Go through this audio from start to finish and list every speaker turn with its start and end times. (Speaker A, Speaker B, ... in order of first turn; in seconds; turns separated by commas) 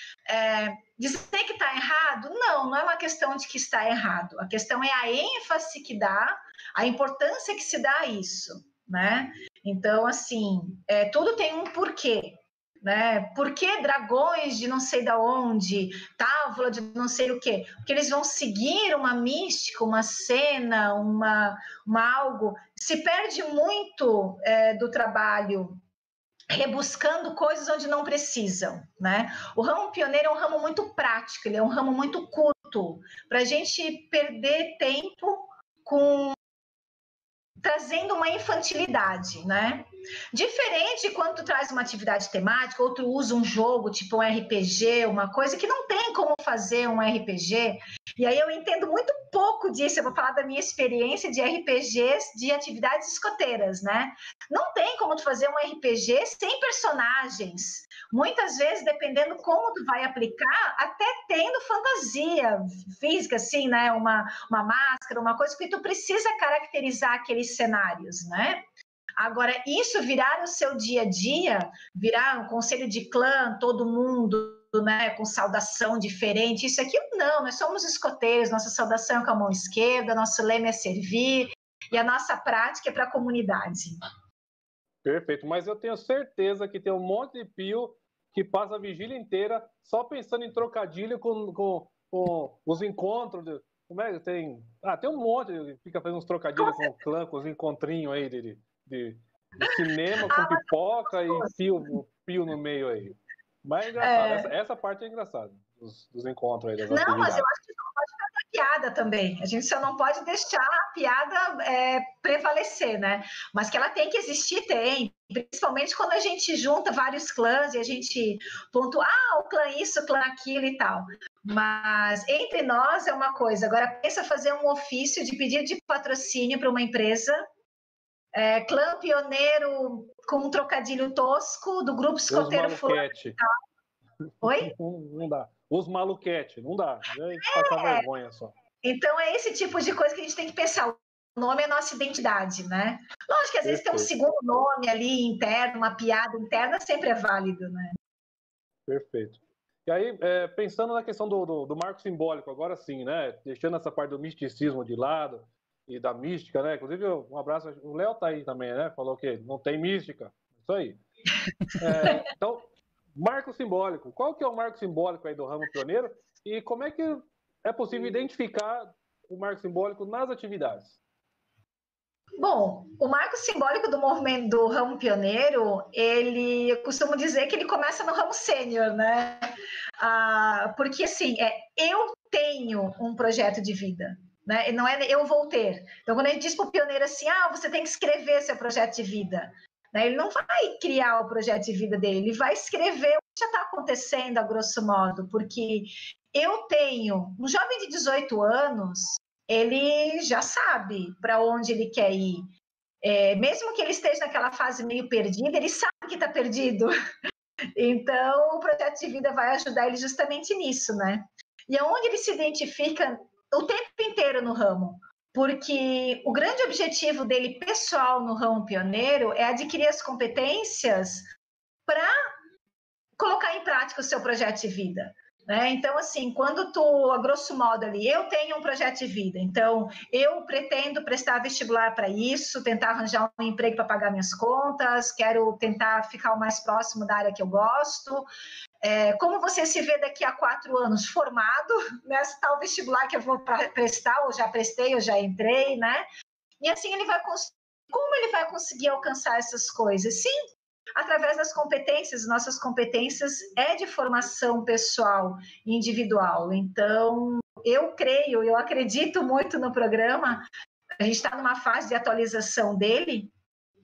Speaker A: 0.3-25.8, Speaker A: 26.5-36.4, Speaker A: 37.6-68.6, Speaker A: 69.2-84.0, Speaker B: 85.0-107.5, Speaker A: 96.6-96.8, Speaker A: 100.3-101.7, Speaker A: 104.0-104.5, Speaker A: 106.9-127.4, Speaker A: 128.3-133.4, Speaker B: 132.3-133.4, Speaker A: 134.4-134.7, Speaker B: 134.6-138.5, Speaker A: 137.4-138.1, Speaker A: 138.8-148.0, Speaker B: 143.6-144.1, Speaker B: 148.9-161.0, Speaker A: 161.6-162.2, Speaker B: 161.8-171.0, Speaker A: 172.4-179.4, Speaker A: 180.0-202.5, Speaker A: 203.0-206.9, Speaker A: 207.8-221.2, Speaker A: 221.9-222.1, Speaker A: 223.2-238.2, Speaker A: 238.8-246.0, Speaker A: 246.6-250.3, Speaker A: 251.0-260.4, Speaker A: 261.0-263.3